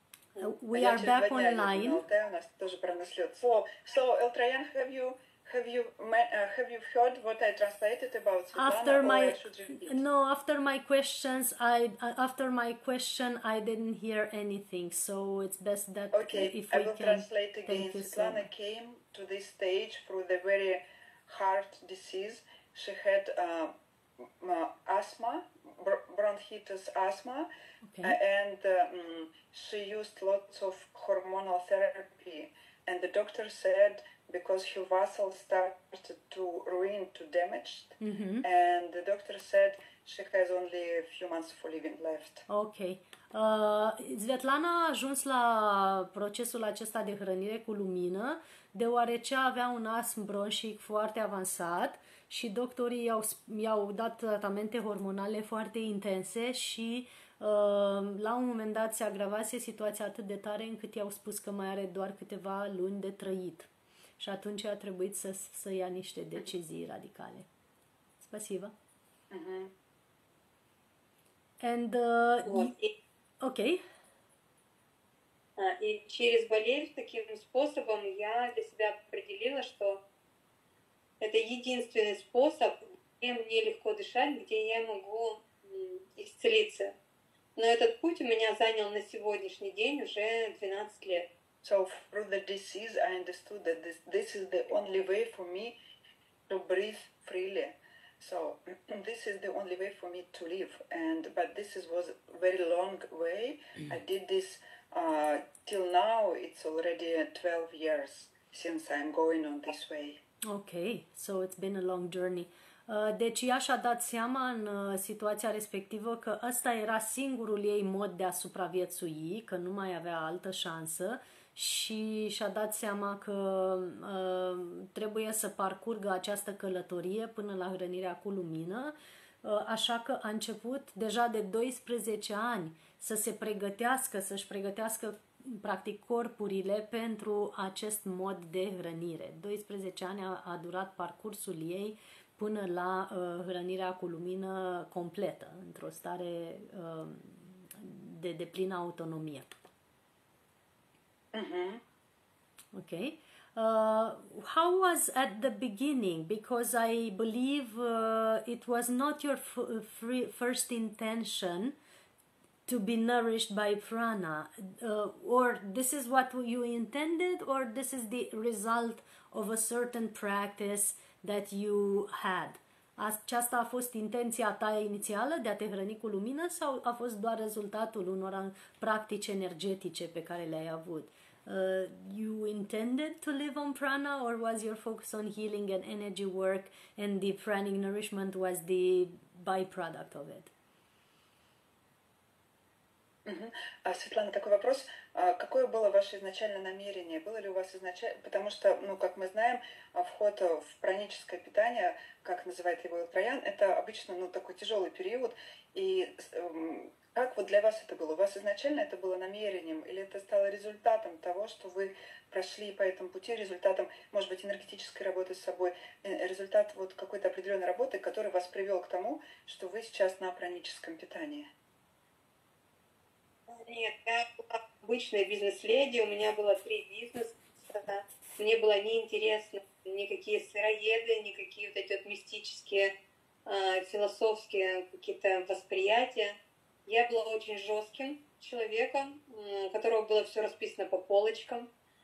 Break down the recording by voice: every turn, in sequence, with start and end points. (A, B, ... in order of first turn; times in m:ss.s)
0:00.4-0:02.0 A
0:00.7-0:10.0 B
0:08.5-0:18.4 A
0:16.1-0:27.5 B
0:27.8-0:28.2 A
0:28.0-0:42.4 B
0:38.0-0:38.4 A
0:42.5-1:07.5 A
1:08.2-1:08.7 A
1:09.3-1:09.7 B
1:11.6-1:12.7 A
1:12.4-1:12.9 C
1:13.4-1:13.8 A
1:15.6-1:20.0 C
1:21.2-1:26.9 C
1:27.6-1:31.3 C
1:31.6-1:35.8 B
1:36.5-1:50.2 B
1:50.4-2:29.6 A
2:31.3-2:31.8 B
2:32.7-2:41.8 A
2:42.7-3:10.5 A
3:13.2-3:41.5 B
3:43.5-3:52.9 C
3:53.4-4:01.7 C